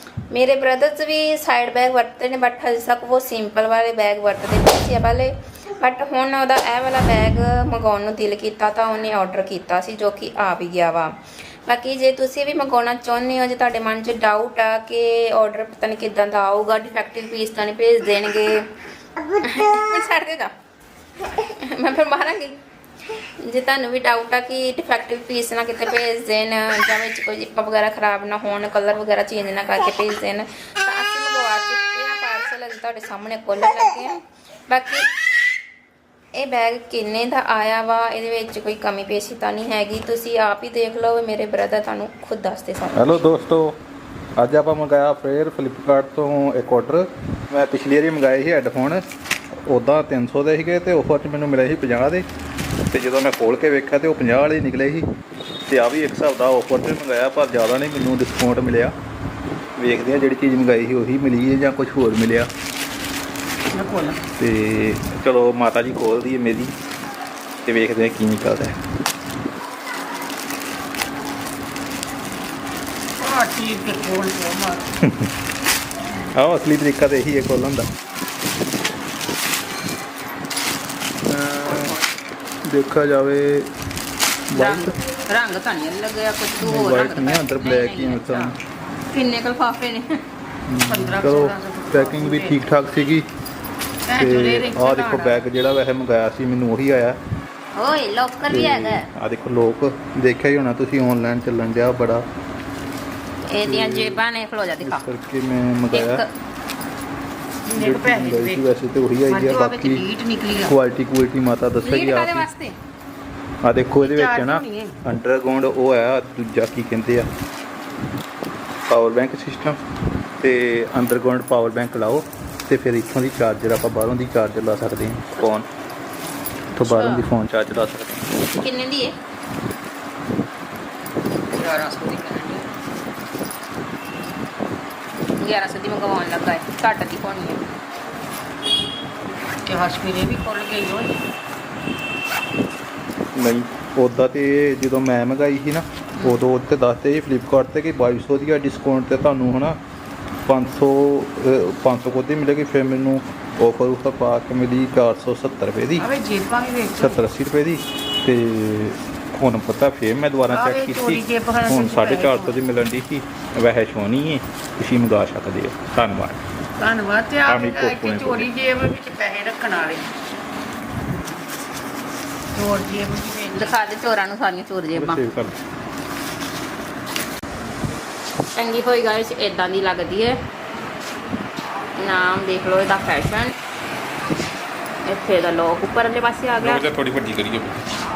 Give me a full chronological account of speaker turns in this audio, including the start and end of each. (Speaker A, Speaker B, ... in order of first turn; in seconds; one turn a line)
Speaker A: 0.3-11.1
Speaker A: 11.7-18.6
Speaker A: 19.4-20.5
Speaker A: 21.4-22.6
Speaker A: 23.4-35.1
Speaker A: 36.4-43.2
Speaker B: 43.0-43.8
Speaker B: 44.4-49.0
Speaker B: 49.7-52.2
Speaker B: 52.9-55.1
Speaker B: 55.7-58.9
Speaker B: 59.8-62.5
Speaker C: 63.7-64.2
Speaker B: 64.4-66.7
Speaker B: 67.7-68.8
Speaker C: 73.2-74.9
Speaker B: 75.0-75.3
Speaker B: 76.3-77.9
Speaker B: 81.3-82.0
Speaker A: 81.7-82.0
Speaker B: 82.7-83.7
Speaker B: 84.5-85.0
Speaker A: 84.5-88.5
Speaker B: 86.6-88.6
Speaker A: 89.1-90.2
Speaker B: 90.7-93.3
Speaker C: 90.9-92.6
Speaker C: 94.1-95.5
Speaker B: 94.2-97.2
Speaker A: 97.8-99.1
Speaker B: 98.5-102.3
Speaker A: 103.5-105.0
Speaker B: 103.6-104.2
Speaker B: 104.8-106.2
Speaker A: 105.9-106.3
Speaker C: 107.7-108.7
Speaker B: 107.8-110.0
Speaker C: 109.3-110.8
Speaker B: 110.6-112.5
Speaker A: 111.8-112.8
Speaker B: 113.6-117.3
Speaker C: 114.0-115.0
Speaker B: 118.9-119.8
Speaker B: 120.4-125.7
Speaker B: 126.8-128.3
Speaker A: 126.9-127.3
Speaker A: 128.5-129.2
Speaker C: 131.5-132.6
Speaker A: 135.4-137.6
Speaker C: 139.7-141.2
Speaker B: 143.3-149.8
Speaker B: 150.5-156.1
Speaker C: 156.0-157.2
Speaker B: 157.0-166.4
Speaker C: 160.5-162.6
Speaker C: 166.8-170.1
Speaker B: 167.5-168.5
Speaker C: 172.6-173.8
Speaker A: 173.5-175.2
Speaker B: 174.9-175.6
Speaker A: 178.6-180.4
Speaker A: 182.0-183.5
Speaker A: 185.1-186.8
Speaker B: 186.6-187.8